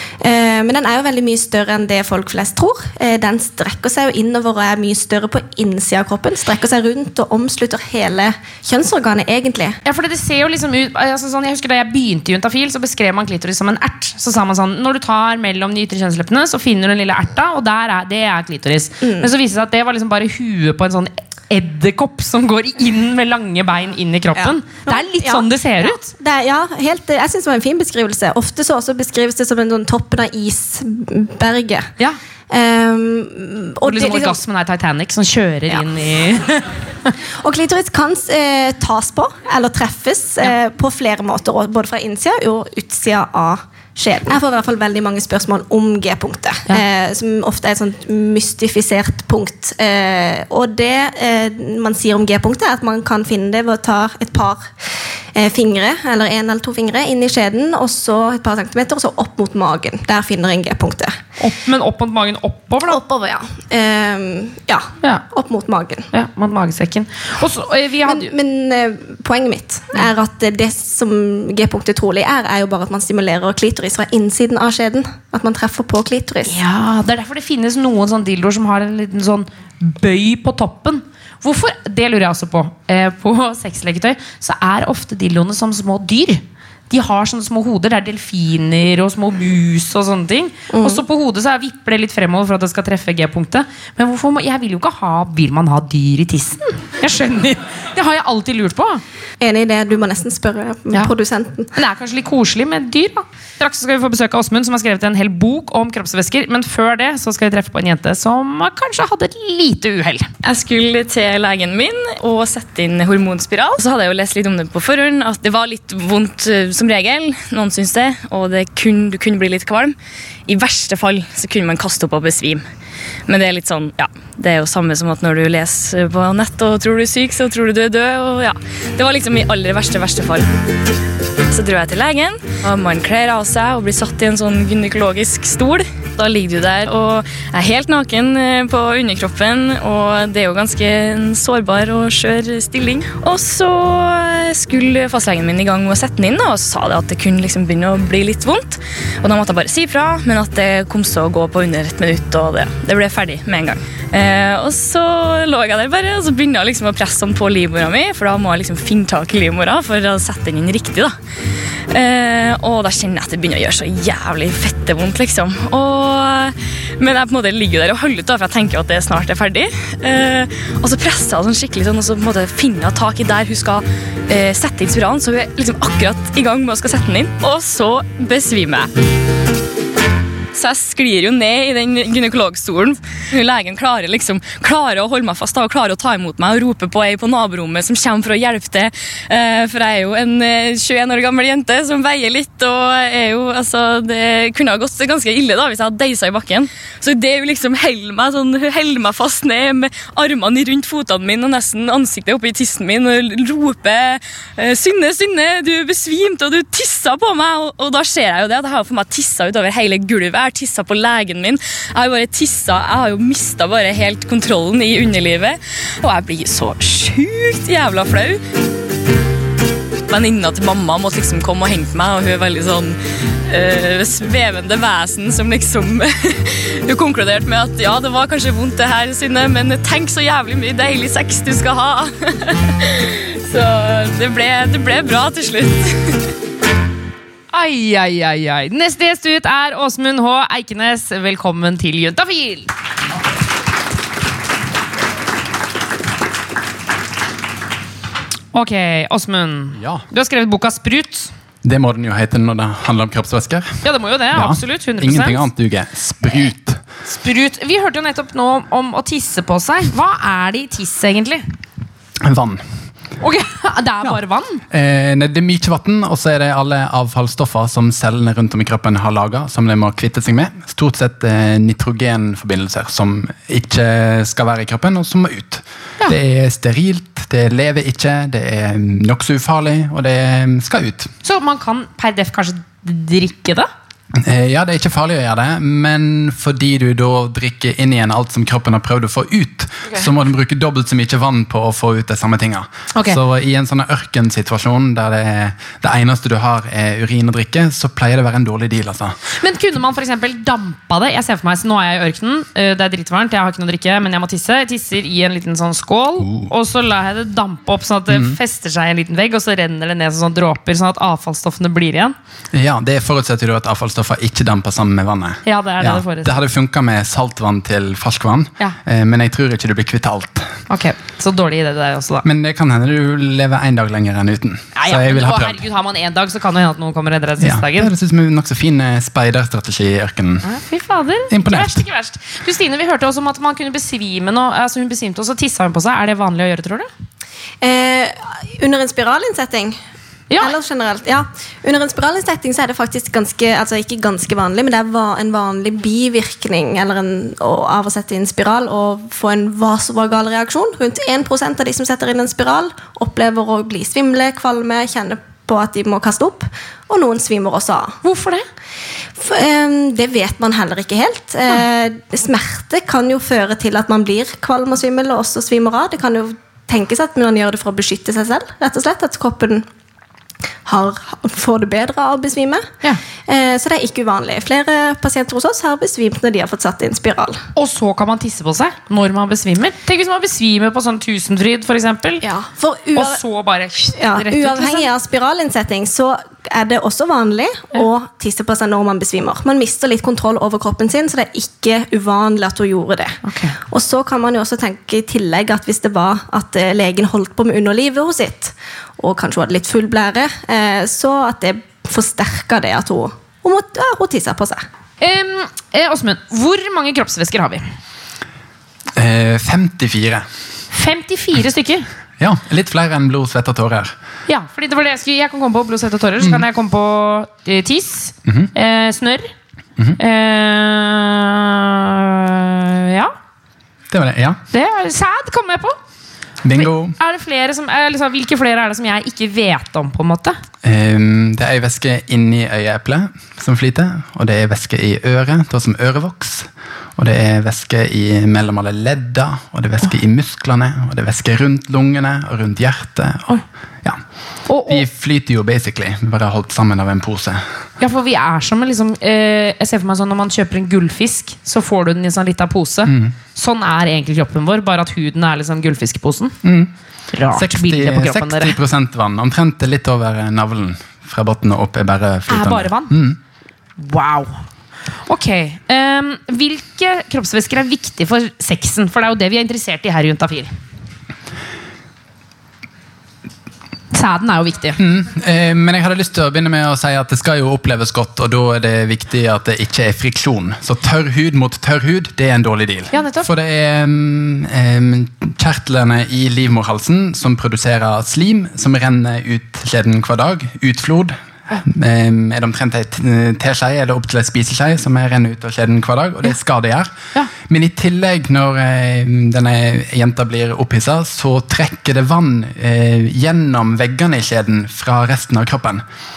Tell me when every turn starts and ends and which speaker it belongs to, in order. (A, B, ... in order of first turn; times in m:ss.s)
0:00.2-0:09.8 A
0:09.8-0:26.1 B
0:19.0-0:19.3 A
0:24.4-0:31.9 A
0:32.5-0:34.4 A
0:33.8-0:37.1 B
0:37.4-0:54.7 A
0:55.3-1:01.2 A
1:01.4-1:03.0 B
1:02.9-1:06.1 A
1:06.1-1:08.3 B
1:08.0-1:16.6 A
1:16.4-1:39.0 B
1:30.7-1:31.0 A
1:39.4-1:41.7 A
1:41.7-1:50.3 B
1:50.4-2:00.0 C
2:00.5-2:02.6 C
2:03.3-2:10.4 C
2:11.5-2:41.2 C
2:41.9-2:58.9 C
3:00.5-3:38.4 C
3:40.1-3:43.0 C
3:43.5-3:56.2 C
3:57.5-4:02.7 B
4:08.5-4:11.3 B
4:09.8-4:10.0 D
4:11.6-4:16.8 D
4:13.8-4:15.4 B
4:17.1-4:21.4 B
4:22.2-4:22.7 D
4:23.2-4:24.6 B
4:24.7-4:41.1 D
4:41.2-4:43.7 B
4:44.1-4:59.2 D
4:59.4-5:12.1 B
5:06.2-5:06.5 D
5:08.1-5:08.4 D
5:12.5-5:20.5 D
5:15.4-5:16.3 B
5:20.7-5:22.2 B
5:22.2-5:25.6 D
5:24.7-5:27.9 B
5:27.4-5:30.4 D
5:30.4-5:36.9 B
5:31.3-5:31.8 D
5:37.6-5:39.8 A
5:40.4-5:58.0 A
5:58.0-5:58.4 B
5:59.2-6:09.6 A
6:10.6-6:12.7 A
6:13.3-6:17.4 A
6:17.6-6:22.2 B
6:22.2-6:23.2 A
6:22.9-6:24.9 B
6:24.0-6:44.6 A
6:33.2-6:33.6 B
6:45.0-6:47.6 B
6:49.0-6:50.3 D
6:50.7-6:51.9 B
6:52.2-6:53.9 D
6:54.3-6:59.3 B
7:00.0-7:03.1 B
7:03.9-7:04.4 D
7:04.5-7:05.8 B
7:06.4-7:06.9 D
7:06.5-7:10.4 B
7:10.6-7:24.0 D
7:24.5-7:24.8 B
7:24.6-7:27.4 D
7:27.8-7:36.4 B
7:32.8-7:33.1 D
7:36.4-7:36.7 D
7:37.1-7:38.6 B
7:37.3-7:43.2 D
7:42.3-7:42.9 B
7:43.8-7:44.4 B
7:45.0-7:50.5 B
7:53.9-7:54.8 B
7:54.8-8:25.8 D
8:02.9-8:03.3 B